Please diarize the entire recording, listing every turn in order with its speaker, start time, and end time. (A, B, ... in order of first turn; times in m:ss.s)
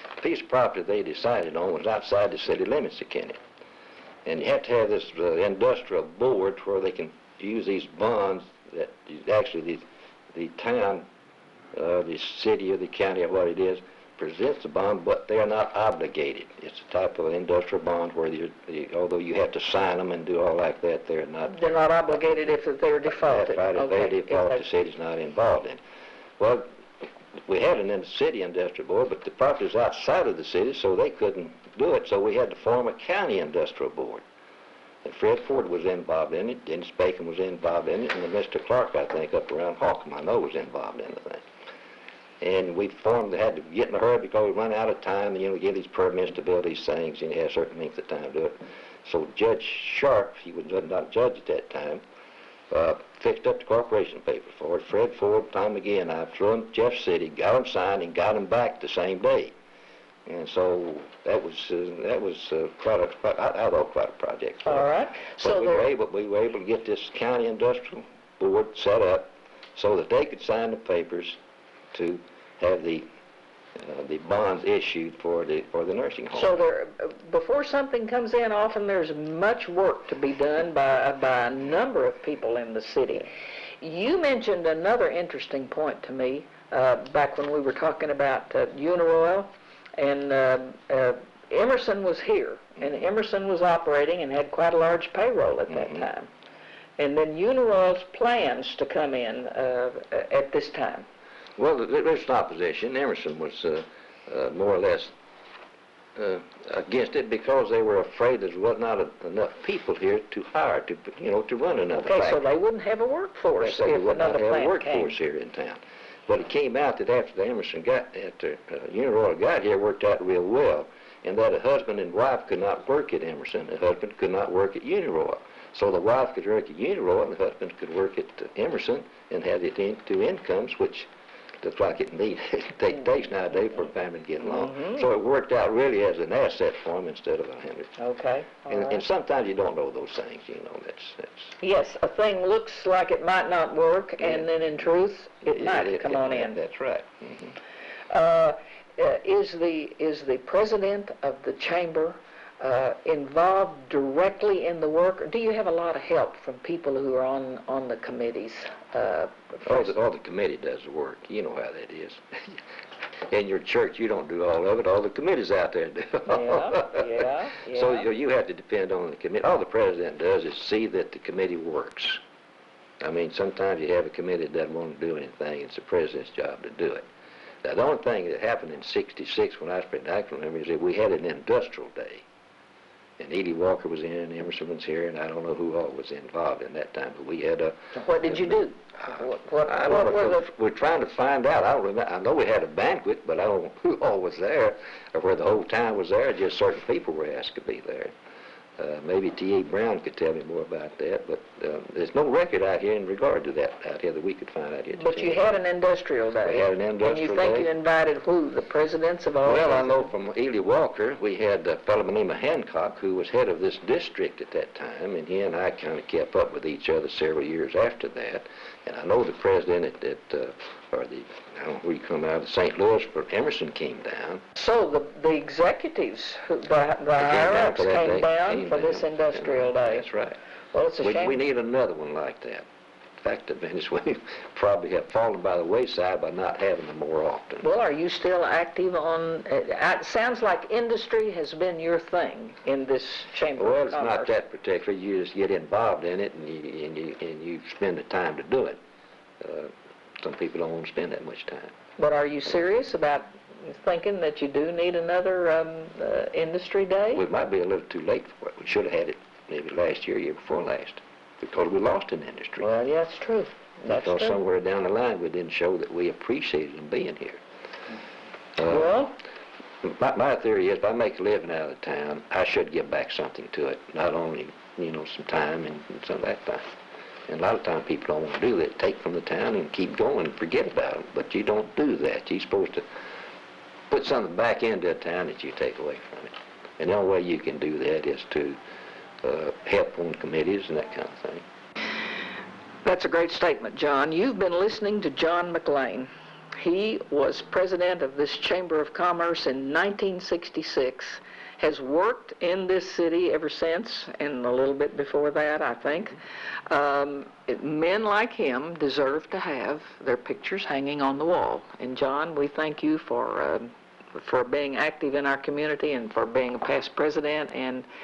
0:00.2-0:03.4 A
0:04.3-0:11.1 A
0:11.7-0:22.5 A
0:21.5-0:24.6 B
0:23.1-0:25.8 A
0:26.4-0:26.7 A
0:27.5-0:34.2 A
0:35.0-0:41.4 A
0:42.4-0:52.0 A
0:52.7-0:59.5 A
1:00.3-1:11.4 A
1:04.6-1:05.9 B
1:11.9-1:13.0 A
1:13.8-1:16.6 A
1:16.3-1:23.3 B
1:23.8-1:36.3 B
1:35.7-1:36.0 A
1:37.0-1:41.0 B
1:41.6-1:45.1 A
1:46.2-1:52.4 A
1:52.0-1:55.2 B
1:53.6-2:11.1 A
2:11.6-2:17.9 A
2:14.4-2:15.0 B
2:18.0-2:19.0 B
2:18.7-2:21.5 A
2:21.6-2:26.6 B
2:24.2-2:24.5 A
2:25.5-2:27.6 A
2:28.1-2:39.9 B
2:39.6-2:42.6 A
2:43.3-2:47.1 A
2:46.3-2:48.1 B
2:47.6-2:52.2 A
2:53.0-2:57.0 A
2:57.6-3:02.2 A
3:03.2-3:18.1 A
3:07.9-3:10.5 B
3:18.8-3:25.5 A
3:24.9-3:30.1 B
3:26.4-3:27.7 A
3:29.4-3:44.4 A
3:44.6-3:50.1 B
3:47.2-3:50.4 A
3:50.7-3:51.4 B
3:51.0-3:52.7 A
3:53.2-3:57.7 A
3:57.6-4:04.3 B
4:03.6-4:08.8 A
4:09.4-4:11.7 A
4:12.0-4:17.2 B
4:17.1-4:22.7 A
4:22.6-4:24.4 B
4:23.9-4:27.4 A
4:28.6-4:28.9 A
4:28.6-4:29.2 B
4:29.8-4:36.6 A
4:37.3-4:42.8 A
4:43.9-4:48.6 A
4:49.2-4:51.4 A
4:52.8-5:06.2 B
5:06.7-5:17.9 B